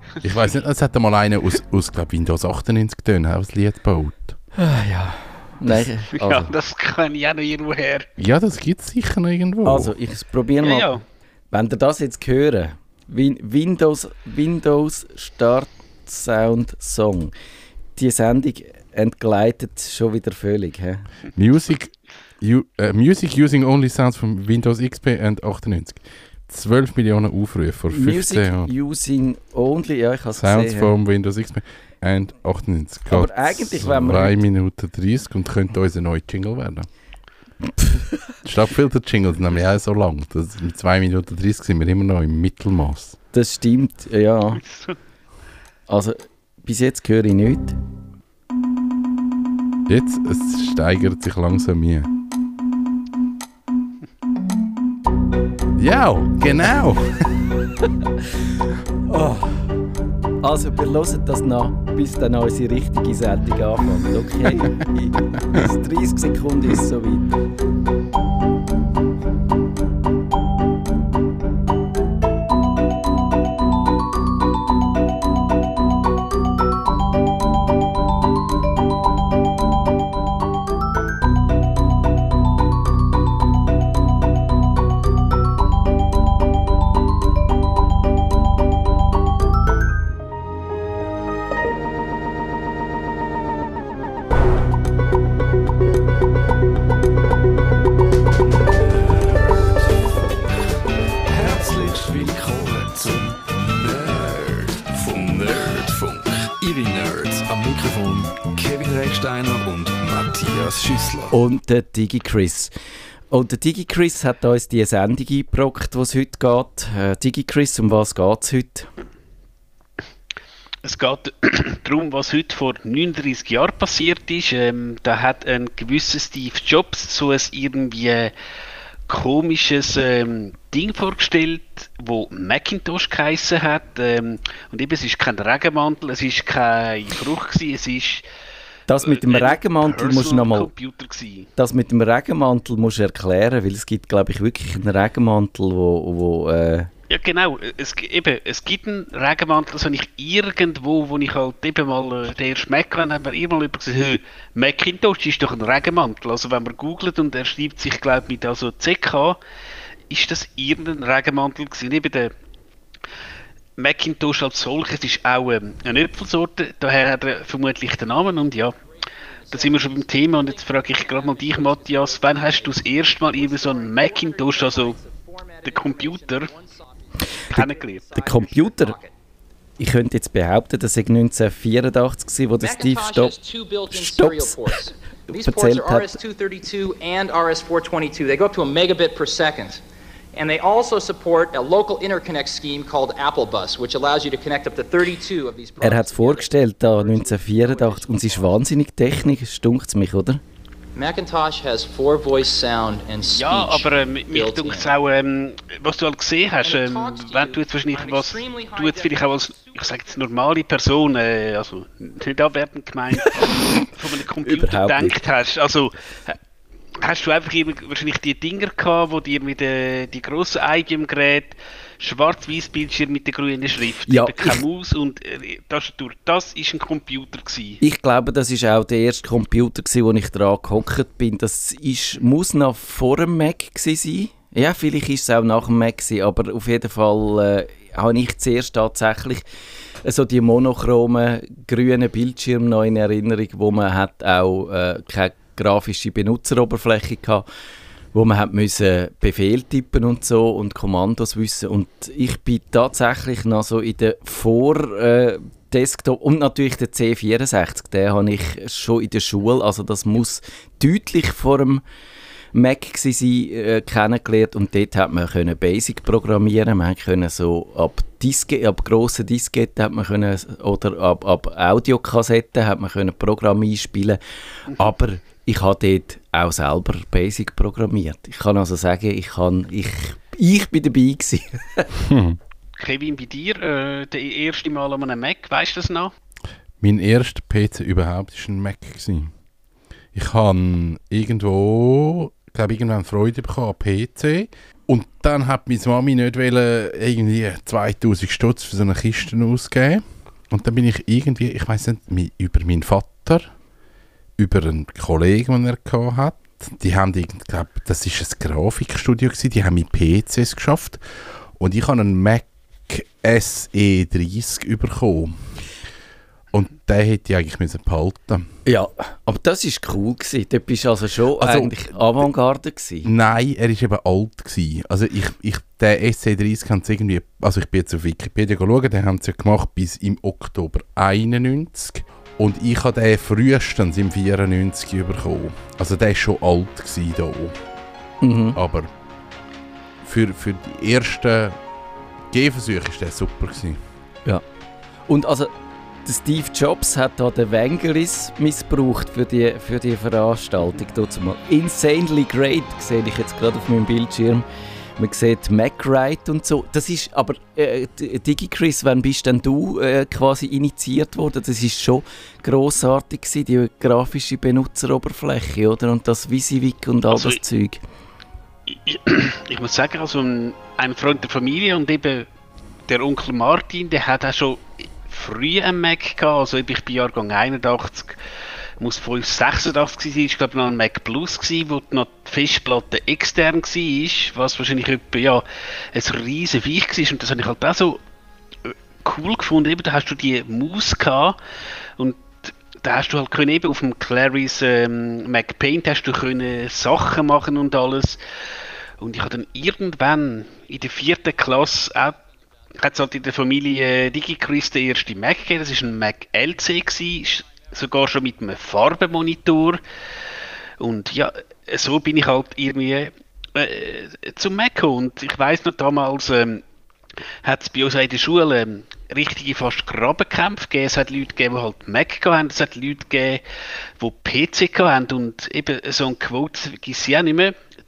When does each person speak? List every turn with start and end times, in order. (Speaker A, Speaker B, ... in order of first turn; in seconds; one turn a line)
Speaker A: 0.2-4.3
Speaker B: 4.5-6.5
Speaker C: 6.1-8.1
Speaker A: 8.2-9.9
Speaker B: 9.6-10.9
Speaker C: 10.6-11.0
Speaker B: 11.5-17.3
Speaker B: 17.9-21.1
Speaker A: 21.3-28.7
Speaker B: 27.9-30.9
Speaker A: 30.4-36.9
Speaker B: 33.1-34.4
Speaker B: 37.6-38.3
Speaker A: 38.4-43.2
Speaker B: 43.3-44.6
Speaker C: 44.5-45.0
Speaker B: 45.9-47.8
Speaker A: 49.9-52.1
Speaker A: 55.8-57.3
Speaker B: 59.1-59.7
Speaker B: 60.4-67.4
Speaker A: 64.6-64.8
Speaker A: 65.4-65.7
Speaker D: 99.0-100.1
Speaker D: 101.2-111.4
Speaker B: 111.3-112.7
Speaker B: 113.3-118.9
Speaker C: 120.8-128.3
Speaker C: 129.1-138.2
Speaker B: 138.9-140.7
Speaker C: 139.0-141.5
Speaker B: 141.6-146.9
Speaker C: 147.1-159.4
Speaker C: 160.1-162.3
Speaker C: 163.8-168.8
Speaker E: 169.2-179.1
Speaker C: 169.5-175.0
Speaker C: 175.6-176.5
Speaker B: 177.5-179.0
Speaker C: 177.5-178.1
Speaker B: 179.8-183.4
Speaker E: 182.6-189.8
Speaker B: 183.9-184.8
Speaker B: 185.3-186.2
Speaker E: 190.3-198.6
Speaker B: 195.8-200.4
Speaker E: 200.9-204.9
Speaker C: 203.3-215.9
Speaker E: 206.6-210.1
Speaker B: 214.4-215.2
Speaker C: 217.0-227.8
Speaker B: 224.1-224.6
Speaker B: 227.8-239.4
Speaker B: 240.0-247.4
Speaker B: 248.1-261.8
Speaker B: 262.5-281.9
Speaker A: 282.0-282.4
Speaker C: 282.8-286.1
Speaker A: 286.8-289.3
Speaker A: 290.1-303.5
Speaker A: 304.4-311.0
Speaker A: 311.6-315.4
Speaker A: 316.5-318.5
Speaker B: 318.6-323.1
Speaker A: 321.4-322.2
Speaker A: 323.0-337.6
Speaker B: 338.2-338.6
Speaker A: 338.5-338.9
Speaker A: 340.0-341.6
Speaker A: 342.3-343.8
Speaker B: 345.1-345.5
Speaker B: 346.0-354.4
Speaker B: 355.0-367.8
Speaker C: 367.1-367.4
Speaker C: 368.7-372.3
Speaker C: 372.9-378.2
Speaker C: 378.8-388.0
Speaker C: 388.7-391.4
Speaker C: 392.0-398.2
Speaker C: 399.0-402.2
Speaker C: 402.8-409.8
Speaker C: 410.8-416.6
Speaker C: 417.4-423.4
Speaker C: 424.0-427.5